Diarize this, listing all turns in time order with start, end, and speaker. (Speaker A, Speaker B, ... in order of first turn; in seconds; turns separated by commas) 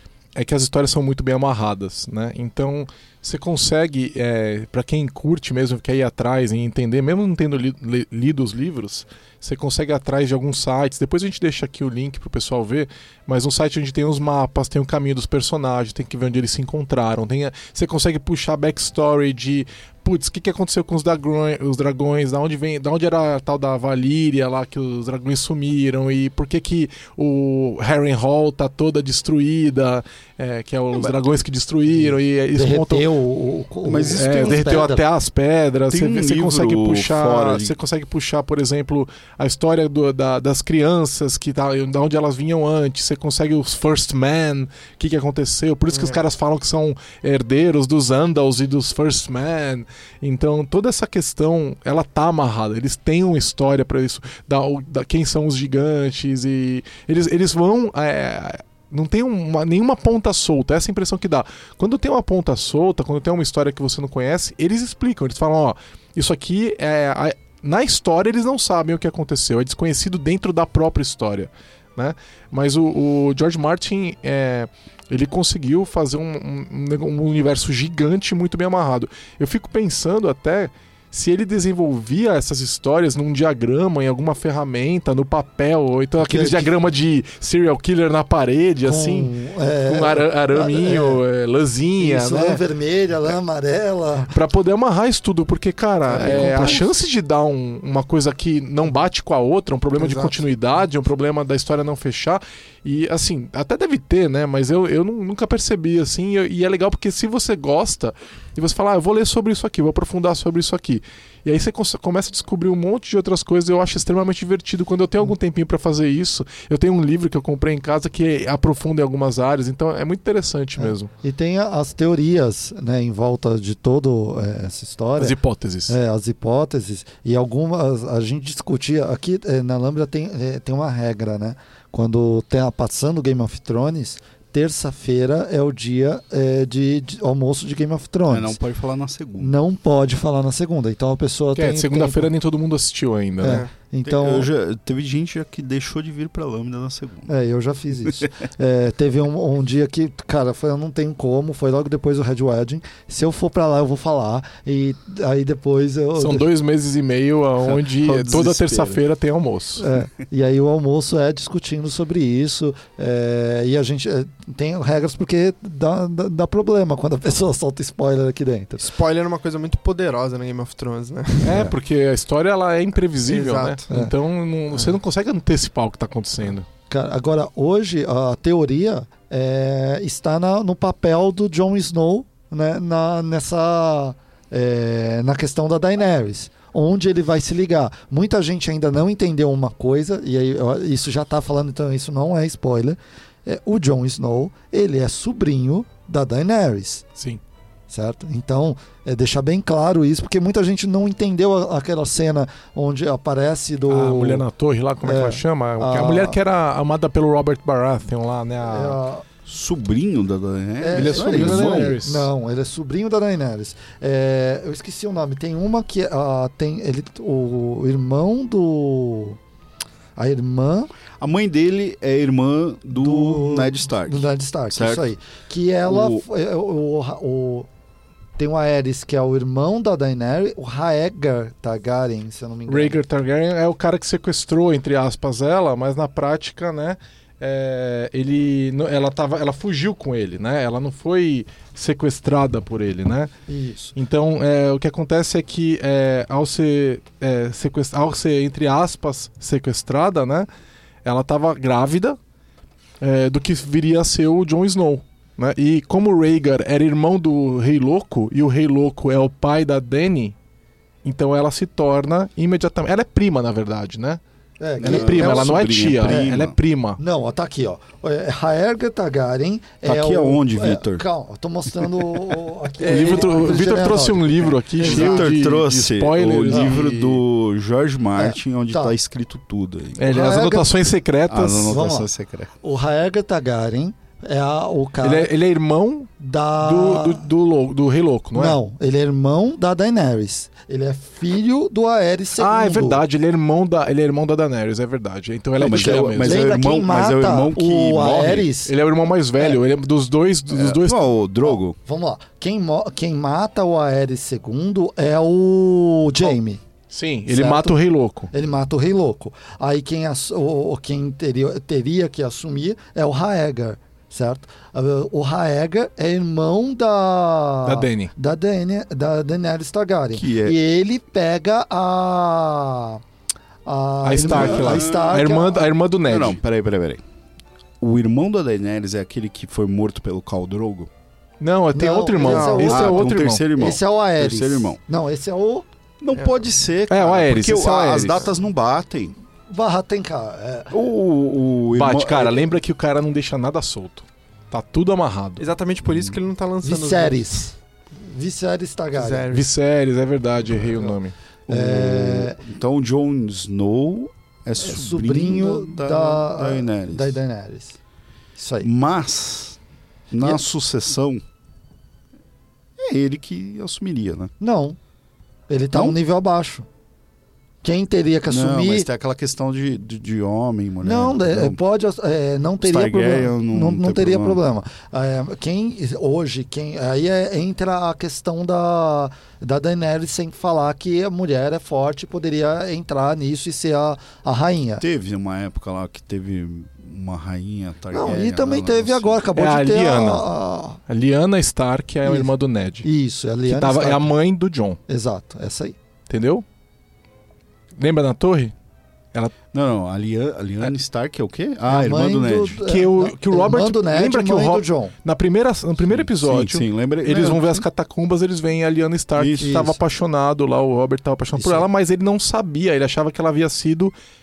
Speaker A: 0.3-33.0, Speaker B: 32.5-35.0, Speaker C: 33.8-34.8, Speaker A: 34.1-89.3, Speaker C: 35.9-37.8, Speaker D: 45.9-46.2, Speaker B: 86.2-86.8, Speaker B: 88.8-91.2, Speaker A: 89.8-92.6, Speaker B: 92.0-94.3, Speaker A: 94.3-121.1, Speaker B: 96.1-96.9, Speaker C: 96.2-96.8, Speaker B: 100.0-100.4, Speaker B: 120.8-125.3, Speaker A: 125.2-126.0, Speaker B: 125.9-138.6, Speaker C: 138.3-139.5, Speaker B: 139.4-142.3, Speaker A: 141.5-143.6, Speaker B: 143.4-144.5, Speaker D: 143.4-143.7, Speaker C: 144.0-147.3, Speaker B: 147.3-156.5, Speaker A: 156.2-159.8, Speaker C: 157.7-159.0, Speaker B: 159.8-168.9, Speaker D: 168.8-171.6, Speaker A: 171.4-176.7, Speaker D: 173.2-173.8, Speaker B: 176.9-197.1, Speaker A: 197.2-197.4, Speaker B: 197.9-204.4, Speaker A: 203.9-209.0, Speaker B: 205.0-206.4, Speaker B: 208.6-209.2, Speaker C: 209.4-212.0, Speaker B: 210.8-219.4, Speaker A: 210.9-212.3, Speaker B: 220.2-220.9, Speaker C: 221.2-225.1, Speaker B: 222.9-227.7, Speaker C: 225.8-226.2, Speaker B: 228.4-233.0, Speaker A: 232.7-243.3, Speaker B: 243.5-243.9, Speaker A: 243.9-250.5, Speaker A: 251.0-252.2, Speaker A: 253.0-260.4, Speaker A: 261.0-264.2, Speaker B: 264.6-266.4, Speaker C: 264.8-266.6, Speaker A: 264.8-267.0, Speaker B: 267.0-275.2, Speaker C: 269.8-271.0, Speaker A: 272.8-277.2, Speaker C: 274.8-280.1, Speaker B: 276.5-276.8, Speaker B: 278.1-278.9, Speaker A: 280.0-281.8, Speaker B: 280.0-280.7, Speaker C: 281.3-282.5, Speaker B: 281.6-282.1, Speaker B: 282.6-285.3, Speaker A: 285.0-288.6, Speaker B: 286.2-287.2, Speaker B: 288.3-293.0, Speaker A: 292.4-296.5, Speaker C: 295.6-298.5, Speaker B: 295.7-298.7, Speaker A: 298.6-301.0, Speaker C: 300.5-301.8, Speaker B: 301.4-306.6, Speaker A: 306.9-308.3, Speaker B: 307.3-307.8, Speaker B: 308.3-323.0, Speaker A: 317.6-318.1, Speaker C: 320.1-320.6, Speaker B: 323.6-325.6, Speaker A: 324.0-326.4, Speaker C: 324.2-325.2, Speaker C: 326.1-327.0, Speaker C: 327.8-330.9, Speaker A: 331.4-333.4, Speaker B: 331.7-335.6, Speaker D: 332.1-332.8, Speaker C: 332.6-334.8, Speaker C: 336.0-339.1, Speaker A: 336.9-338.2, Speaker B: 339.5-340.7, Speaker C: 340.7-342.6, Speaker A: 341.7-345.4, Speaker D: 345.4-347.5, Speaker C: 345.8-346.2, Speaker B: 346.6-349.3, Speaker D: 348.9-349.5, Speaker A: 349.3-351.1, Speaker B: 350.7-350.9, Speaker B: 351.5-352.4, Speaker C: 351.5-357.2, Speaker B: 354.6-357.8, Speaker B: 358.4-358.7, Speaker C: 358.6-359.6, Speaker C: 360.1-361.2, Speaker C: 362.8-364.3, Speaker B: 364.4-364.8, Speaker B: 365.5-366.7, Speaker C: 365.7-366.0, Speaker B: 367.6-368.9, Speaker C: 368.2-371.6, Speaker B: 370.8-384.8, Speaker C: 372.6-374.4, Speaker C: 384.8-389.2, Speaker B: 387.9-390.8, Speaker A: 389.3-390.3, Speaker A: 390.9-392.9, Speaker B: 392.0-392.3, Speaker B: 392.8-394.1, Speaker A: 393.4-394.8, Speaker B: 394.9-395.7, Speaker A: 396.1-396.4, Speaker A: 397.8-398.5, Speaker C: 399.5-402.6, Speaker B: 401.7-404.9, Speaker A: 402.6-413.9, Speaker C: 405.9-407.6, Speaker C: 409.1-409.7, Speaker B: 409.4-409.7, Speaker B: 411.4-411.6